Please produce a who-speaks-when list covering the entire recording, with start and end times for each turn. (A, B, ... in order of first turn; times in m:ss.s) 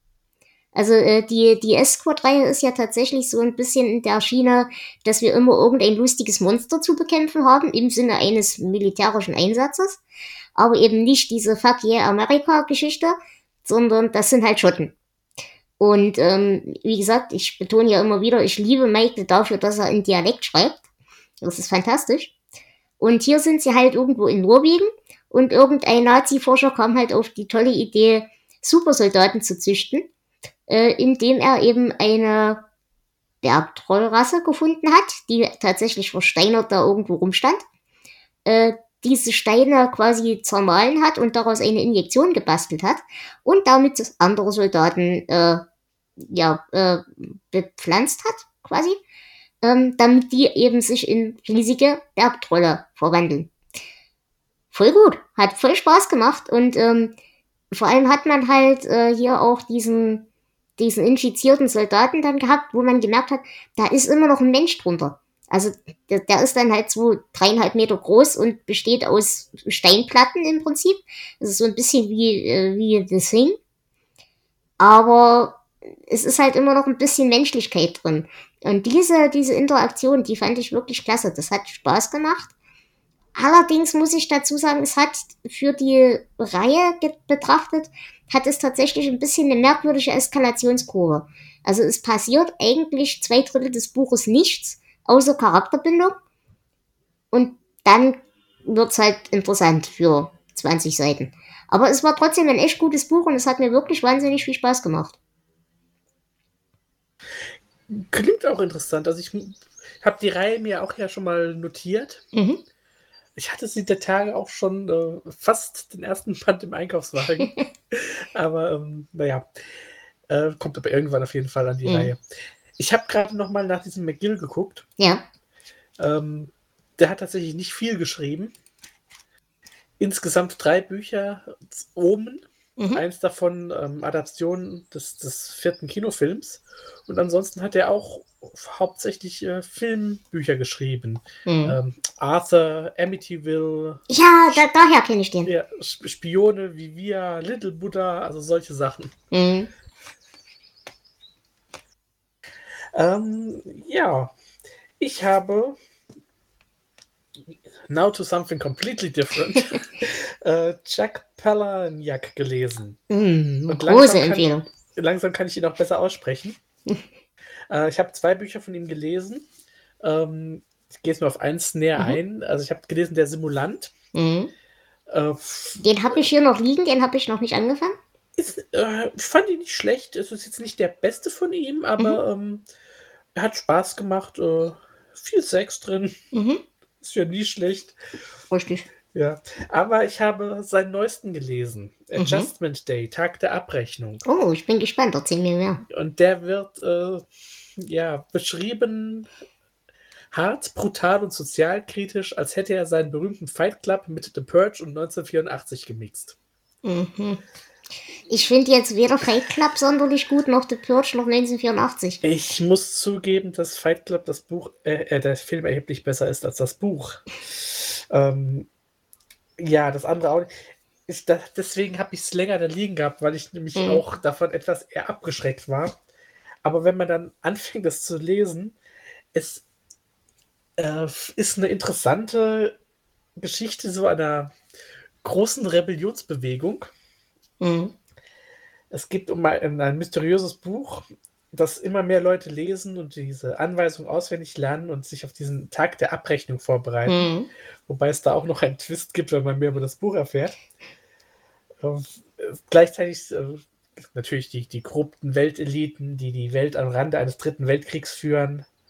0:00.7-0:10.0 A
0:10.6-0:14.9 A
0:15.8-0:20.8 A
0:21.4-0:22.3 A
0:23.0-0:30.1 A
0:30.7-0:32.6 A
0:33.4-0:37.6 A
0:38.4-0:45.6 A
0:46.2-0:49.0 A
0:49.6-0:53.5 A
0:54.7-0:57.1 A
0:57.7-1:00.2 A
1:00.8-1:13.6 A
1:14.8-1:22.5 A
1:23.3-1:36.1 A
1:37.3-1:45.2 A
1:47.9-1:52.2 B
1:52.3-1:52.6 A
1:53.4-1:59.5 B
2:00.3-2:02.2 B
2:01.8-2:02.1 A
2:02.8-2:04.8 B
2:05.0-2:05.2 A
2:06.0-2:08.5 B
2:10.0-2:24.0 B
2:12.8-2:13.0 A
2:21.4-2:21.8 A
2:24.1-2:25.5 A
2:25.4-2:29.1 B
2:29.3-2:29.7 A
2:32.9-2:34.3 B
2:35.0-2:35.8 B
2:37.9-2:43.0 B
2:43.1-2:44.6 A
2:43.7-2:46.6 B
2:47.7-2:49.5 B
2:50.0-2:53.9 B
2:54.1-2:54.5 A
2:55.1-2:55.8 B
2:55.8-2:58.0 A
2:58.4-3:02.6 B
3:03.3-3:06.2 B
3:06.3-3:06.6 A
3:07.0-3:07.9 B
3:08.5-3:08.9 A
3:09.1-3:14.2 B
3:12.2-3:12.5 A
3:14.2-3:15.8 A
3:15.9-3:19.3 B
3:20.3-3:26.4 B
3:26.8-3:27.4 A
3:28.3-3:32.2 A
3:32.2-3:38.7 B
3:39.6-3:40.5 B
3:41.1-3:46.0 B
3:43.8-3:44.0 A
3:46.6-3:48.8 B
3:49.3-3:49.6 B
3:50.8-3:52.8 B
3:53.4-3:54.5 B
3:55.2-3:56.9 B
3:57.6-3:57.9 A
3:58.9-4:07.3 B
4:07.1-4:07.5 A
4:07.9-4:10.6 B
4:11.8-4:18.7 B